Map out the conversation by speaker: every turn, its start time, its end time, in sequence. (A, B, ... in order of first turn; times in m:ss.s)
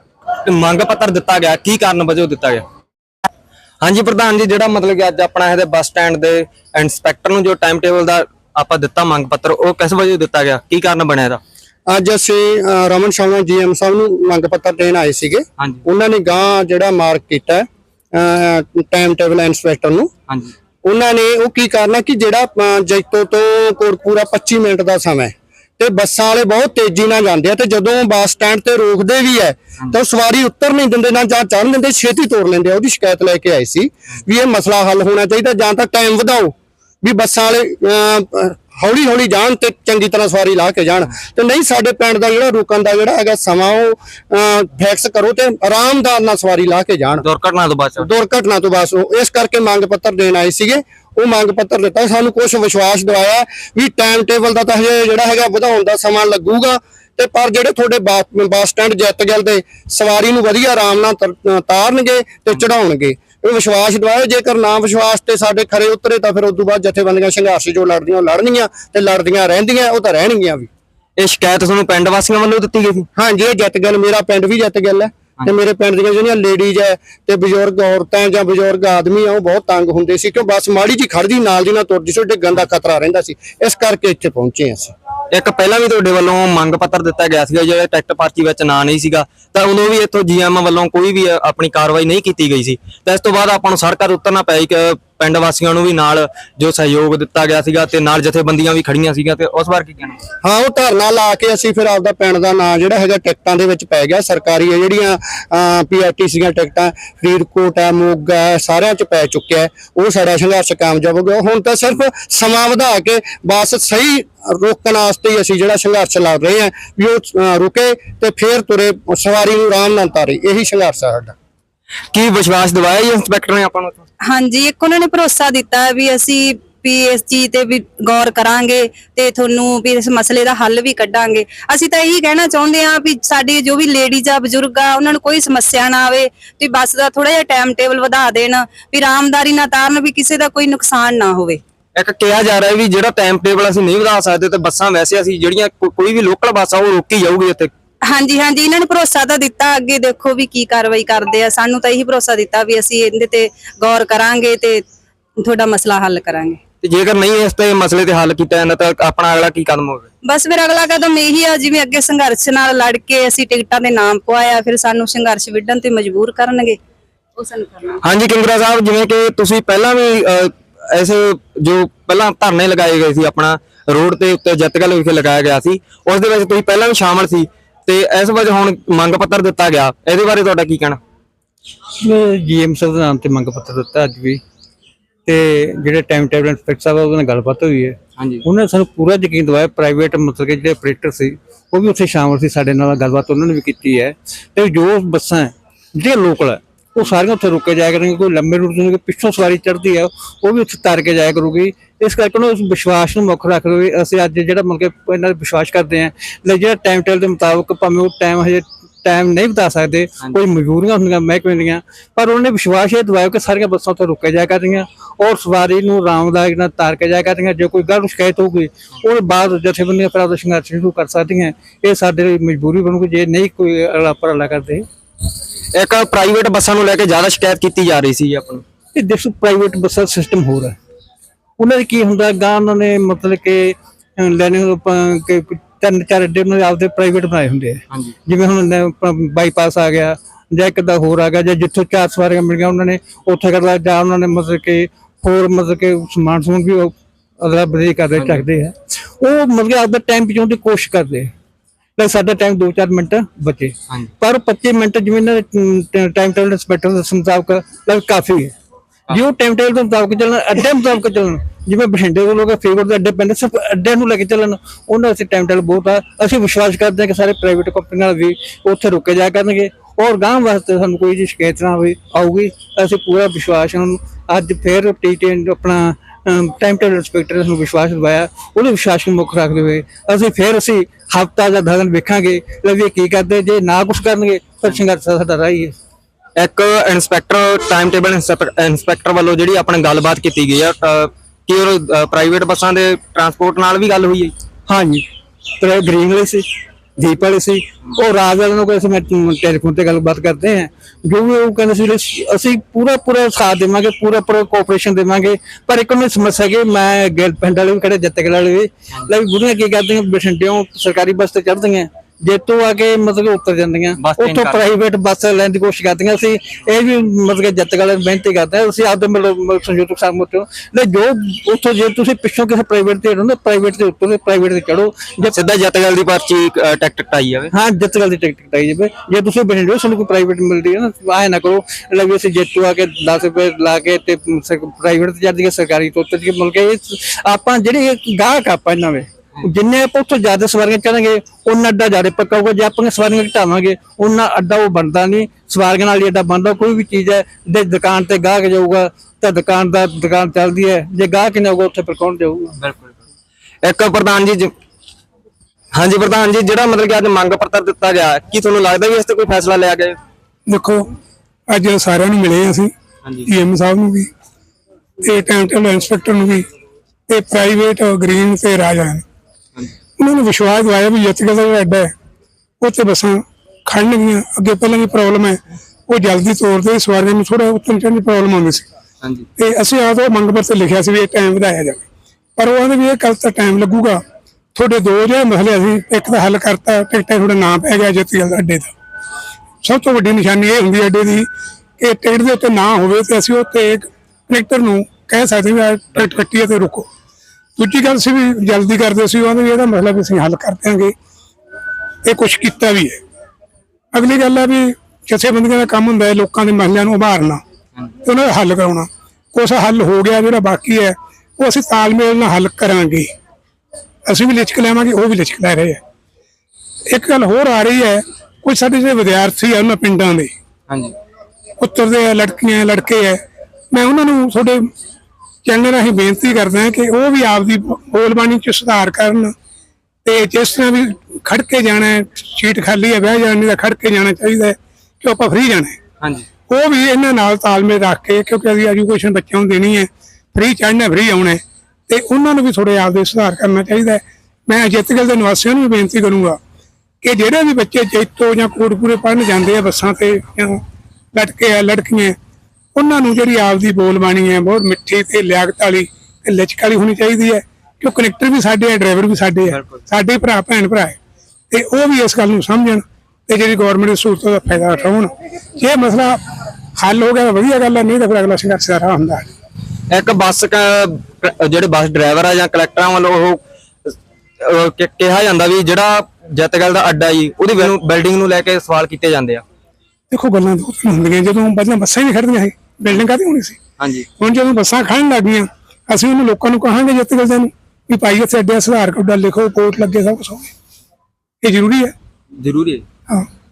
0:00.5-0:02.6 A
0:03.8-0:11.4 A
0:11.9-0:20.1 B
0:20.3-0:20.5 A
0:20.8-0:47.2 B
0:47.2-0:48.1 A
0:48.0-1:10.7 B
1:11.2-1:13.1 A
1:13.2-1:24.9 B
1:25.3-1:40.2 A
1:40.4-2:01.3 B
2:02.1-2:04.0 A
2:04.3-2:21.6 C
2:22.0-2:27.7 A
2:28.1-2:34.8 C
2:35.4-2:36.6 C
2:36.8-2:40.1 A
2:40.2-2:46.8 C
2:47.4-2:48.0 C
2:48.0-3:01.0 A
3:02.0-3:04.4 D
3:05.3-3:44.9 D
3:08.2-3:08.4 A
3:45.8-3:48.6 A
3:49.0-3:50.8 D
3:51.6-4:11.3 D
3:57.9-3:58.2 A
4:08.2-4:08.4 A
4:12.0-4:18.6 D
4:19.1-4:45.7 D
4:46.4-4:54.3 A
4:54.7-4:55.0 D
4:55.6-4:56.5 D
4:57.0-5:25.4 D
5:14.0-5:14.8 A
5:25.2-5:27.5 A
5:27.5-5:52.6 D
5:52.6-5:53.0 A
5:53.6-5:54.5 A
5:55.7-6:00.0 A
6:00.5-6:00.8 E
6:01.5-6:02.7 E
6:03.3-6:04.1 E
6:05.0-6:06.5 E
6:07.1-6:09.0 E
6:10.0-6:11.9 E
6:12.6-6:18.7 E
6:19.0-6:19.3 A
6:19.4-6:21.8 E
6:22.4-6:24.0 E
6:24.6-6:28.7 E
6:29.6-6:31.3 E
6:31.8-6:36.9 E
6:37.6-6:40.9 E
6:42.0-6:43.0 E
6:43.9-6:47.4 E
6:48.0-6:53.1 E
6:54.1-6:55.8 E
6:56.9-7:00.3 E
7:00.7-7:01.0 A
7:01.6-7:03.2 E
7:03.7-7:04.6 E
7:05.5-7:09.3 E
7:10.0-7:15.8 E
7:16.0-7:16.3 A
7:16.5-7:26.4 E
7:27.0-7:30.6 E
7:31.1-7:32.2 E
7:32.8-7:41.0 E
7:39.5-7:39.8 A
7:41.5-7:46.2 E
7:46.8-7:49.3 E
7:49.9-7:59.4 A
8:00.1-8:03.6 E
8:03.8-8:04.1 A
8:04.2-8:10.5 E
8:11.4-8:11.9 E
8:12.4-8:12.8 A